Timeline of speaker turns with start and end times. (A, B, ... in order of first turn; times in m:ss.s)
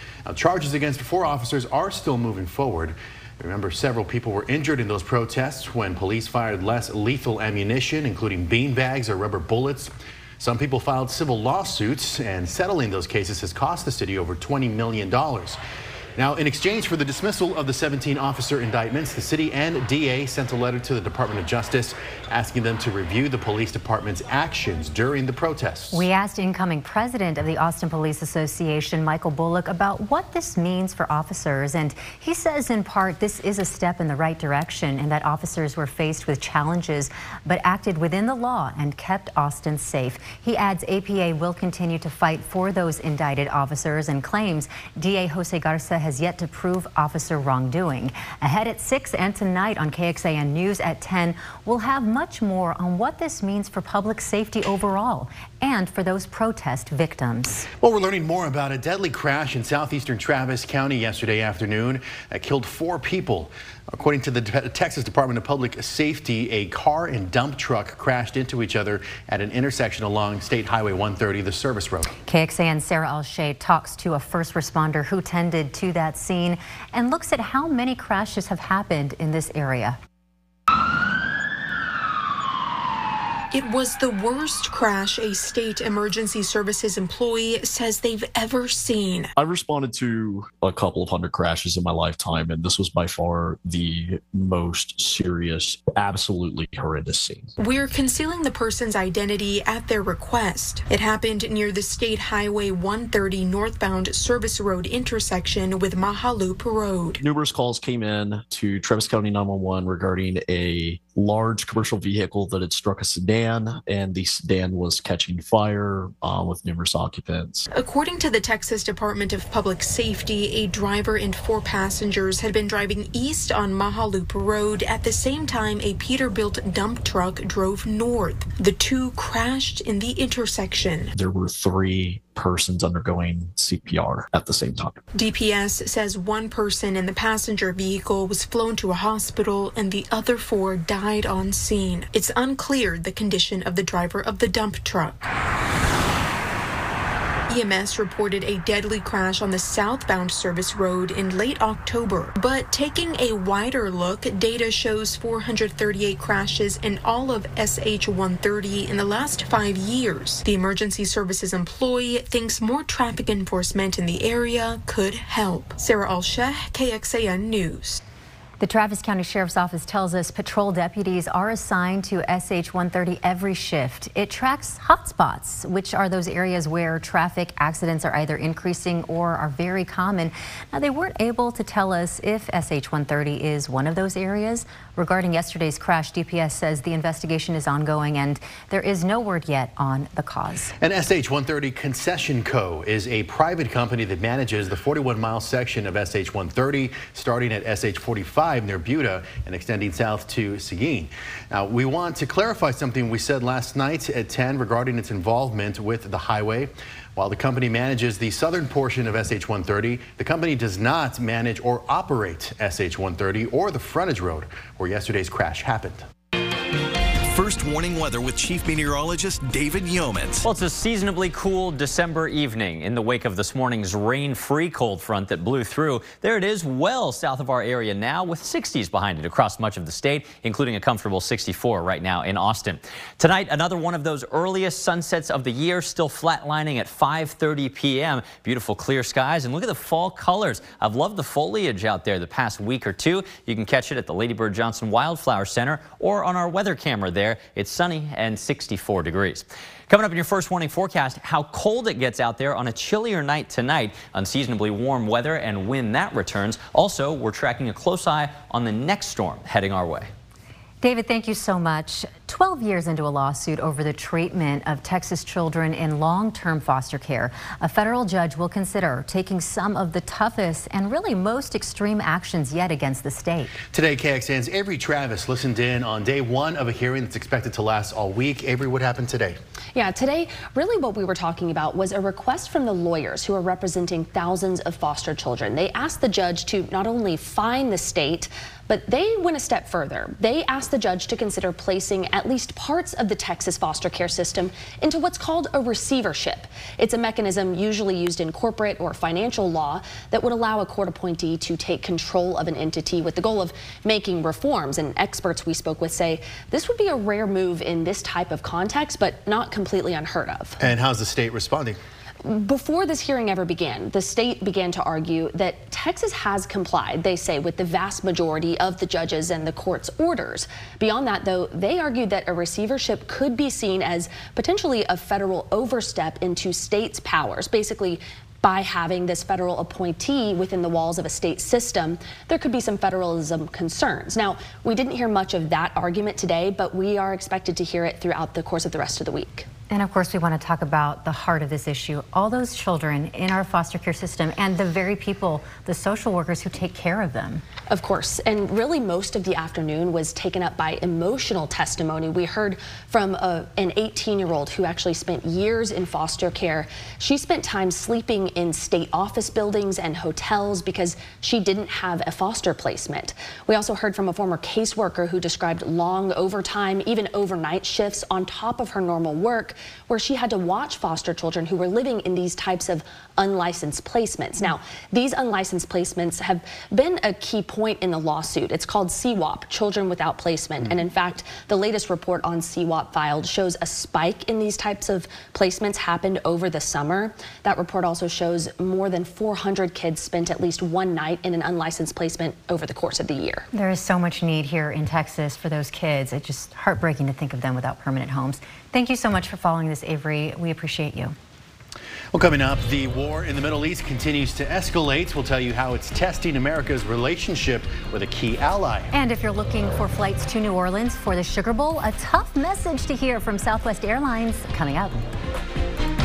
0:00.3-0:15.6 A
0:16.2-0:26.1 A
0:25.9-0:57.7 B
0:57.8-1:12.1 A
1:12.3-1:20.0 B
1:23.5-1:29.3 C
1:29.4-1:37.5 D
1:37.6-1:47.2 C
1:47.2-1:57.7 D
1:57.7-2:11.1 C
2:11.2-2:15.0 D
2:15.1-2:25.2 C
2:27.5-2:48.0 C
2:48.6-3:10.7 B
3:10.8-3:36.0 A
3:37.3-3:40.3 E
3:40.4-4:20.1 F
4:20.8-4:33.6 B
4:33.7-4:39.4 A
4:39.7-5:10.6 G
5:10.6-5:11.8 A
5:12.2-5:39.5 G
5:39.7-5:47.4 B
5:47.7-6:33.4 G
6:33.6-6:41.1 B
6:42.1-6:48.9 A
6:48.9-6:55.0 B